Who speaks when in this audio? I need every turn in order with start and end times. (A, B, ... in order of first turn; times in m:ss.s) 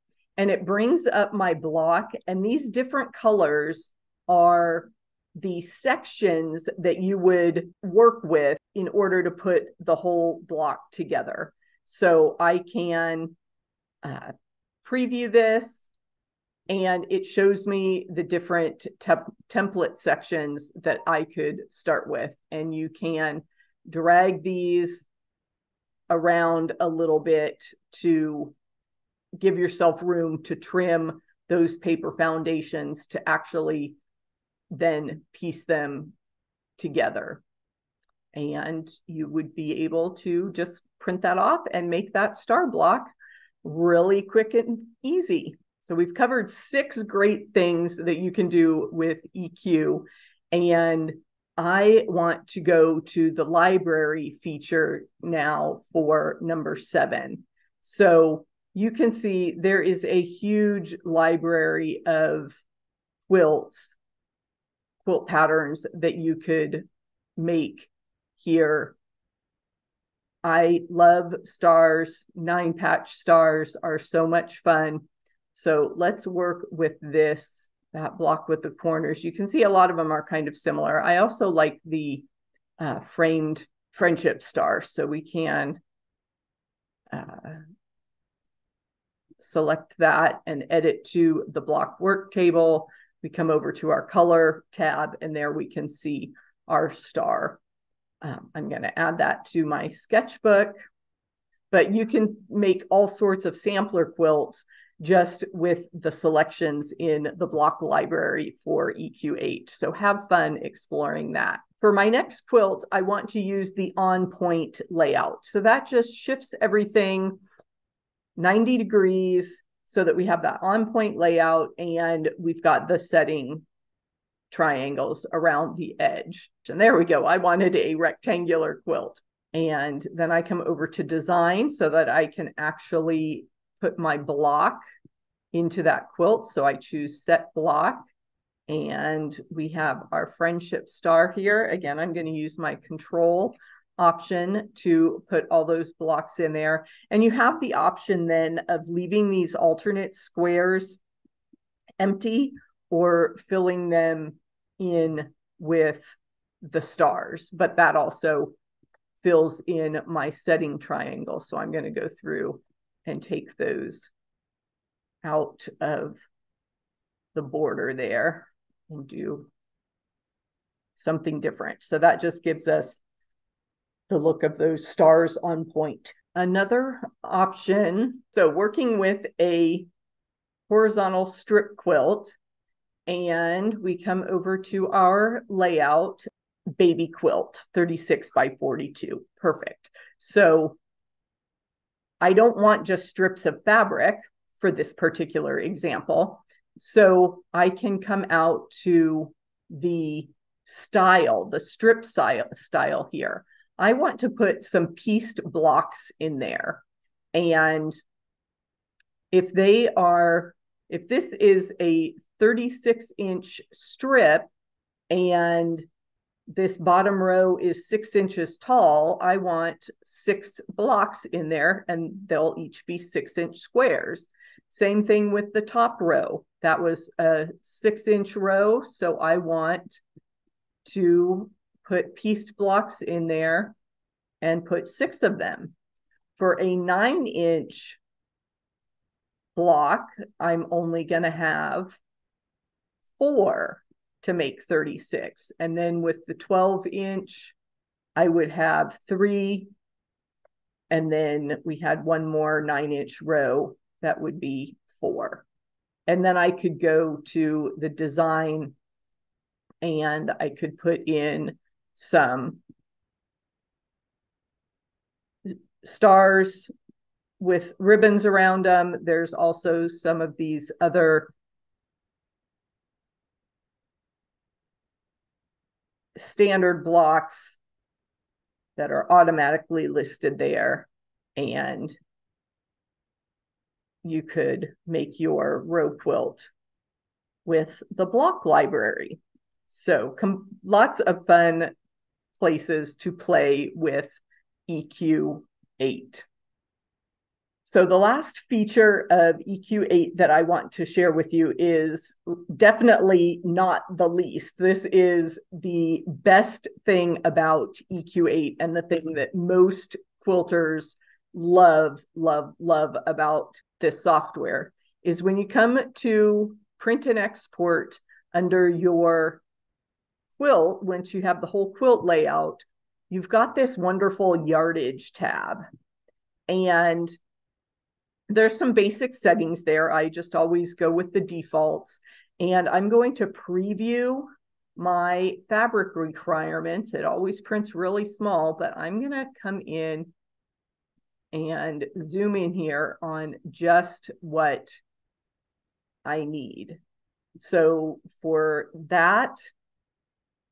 0:00.4-0:13.4 A
0:14.0-0:15.9 A
0:16.7-0:25.1 A
0:26.1-0:28.6 A
0:29.4-0:34.0 A
0:34.7-0:36.1 A
0:36.8-0:37.4 A
0:38.3-0:43.1 A
0:43.6-1:02.6 A
1:03.3-1:04.0 A
1:05.0-1:09.0 A
1:10.4-1:22.3 A
1:22.8-1:25.8 A
1:27.1-1:27.6 A
1:29.4-1:37.6 A
1:38.2-1:40.8 A
1:41.7-1:57.4 A
1:58.4-2:03.6 A
2:04.5-2:14.8 A
2:15.5-2:18.1 A
2:18.7-2:31.0 A
2:32.0-2:38.6 A
2:39.2-2:44.1 A
2:45.2-2:46.2 A
2:47.3-2:49.5 A
2:51.0-2:53.0 A
2:54.1-2:59.9 A
3:00.7-3:02.4 A
3:03.1-3:06.2 A
3:06.8-3:10.8 A
3:12.2-3:26.8 A
3:27.3-3:28.0 A
3:29.3-3:34.5 A
3:35.1-3:35.9 A
3:36.5-3:50.0 A
3:50.8-3:53.8 A
3:54.4-3:55.8 A
3:56.4-3:58.0 A
3:59.6-4:02.0 A
4:03.2-4:07.6 A
4:08.2-4:09.7 A
4:10.9-4:15.4 A
4:16.1-4:18.7 A
4:19.8-4:22.6 A
4:25.5-4:26.7 A
4:27.4-4:31.3 A
4:36.2-4:37.6 A
4:38.8-4:42.0 A
4:44.0-4:46.5 A
4:47.5-4:51.7 A
4:52.4-4:54.1 A
4:54.7-4:56.3 A
4:57.6-5:19.4 A
5:20.4-5:25.6 A
5:26.5-5:27.2 A
5:28.3-5:40.1 A
5:41.3-5:44.8 A
5:46.0-5:46.8 A
5:47.4-5:49.5 A